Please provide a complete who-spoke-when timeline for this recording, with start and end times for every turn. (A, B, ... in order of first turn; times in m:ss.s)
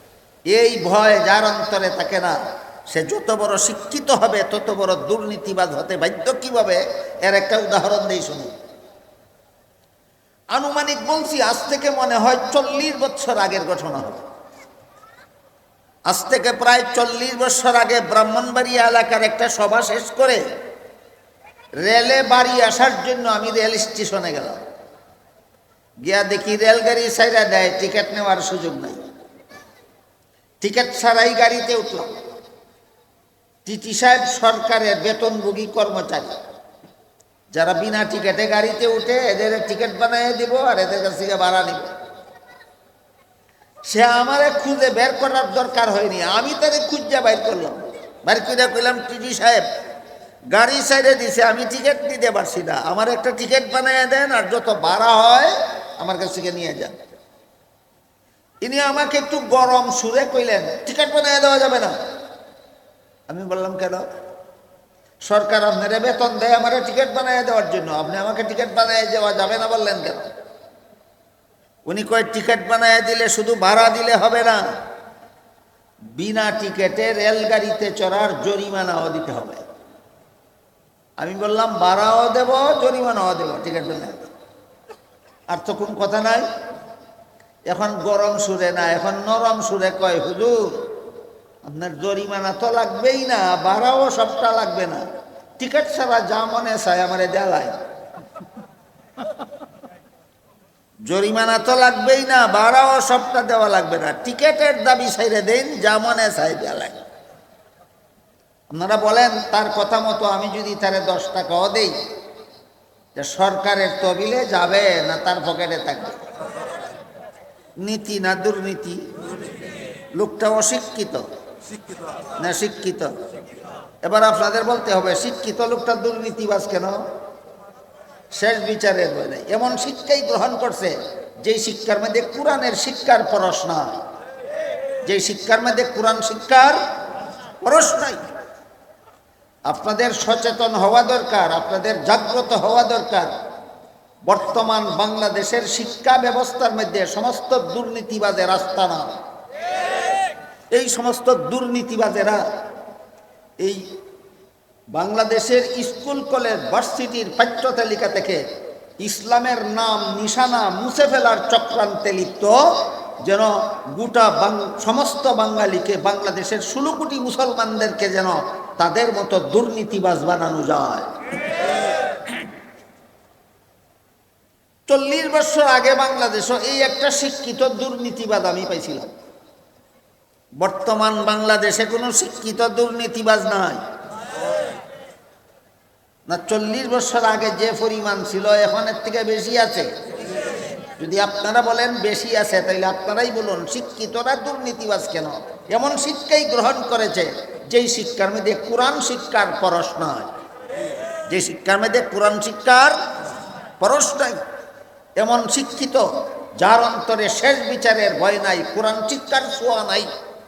0:00.5-0:02.4 A
0:02.9-0:08.5 A
0:10.5-0:14.2 A
0:16.1-0:20.4 A
0:21.8-0:24.6 A
0:26.0-0:29.0 A
0:30.6-0:32.1 A
0:33.6-0:36.3 A
0:37.5-0:41.9 A
0:43.9-0:49.6 A
0:50.5-0:57.0 A
0:58.6-1:01.9 A
1:03.3-1:04.0 A
1:05.3-1:10.3 A
1:11.9-1:14.6 A
1:16.2-1:19.6 A
1:21.2-1:24.3 A
1:25.5-1:26.5 A
1:27.7-1:30.9 A
1:31.6-1:35.0 A
1:35.6-1:37.8 A
1:41.1-1:47.0 A
1:48.7-1:51.9 A
1:53.2-1:56.2 A
1:57.8-1:59.0 A
2:00.2-2:01.2 A
2:02.4-2:03.1 A
2:04.0-2:07.0 A
2:08.3-2:14.0 A
2:15.0-2:16.8 A
2:17.6-2:18.2 A
2:19.7-2:23.3 A
2:24.3-2:29.1 A
2:30.7-2:32.4 A
2:33.6-2:33.9 A
2:34.9-2:38.4 A
2:39.0-2:51.1 A
2:54.9-2:59.1 A
3:00.6-3:03.8 A
3:06.3-3:09.9 A
3:11.0-3:20.3 A
3:21.3-3:22.9 A
3:23.8-3:24.4 A
3:25.2-3:30.1 A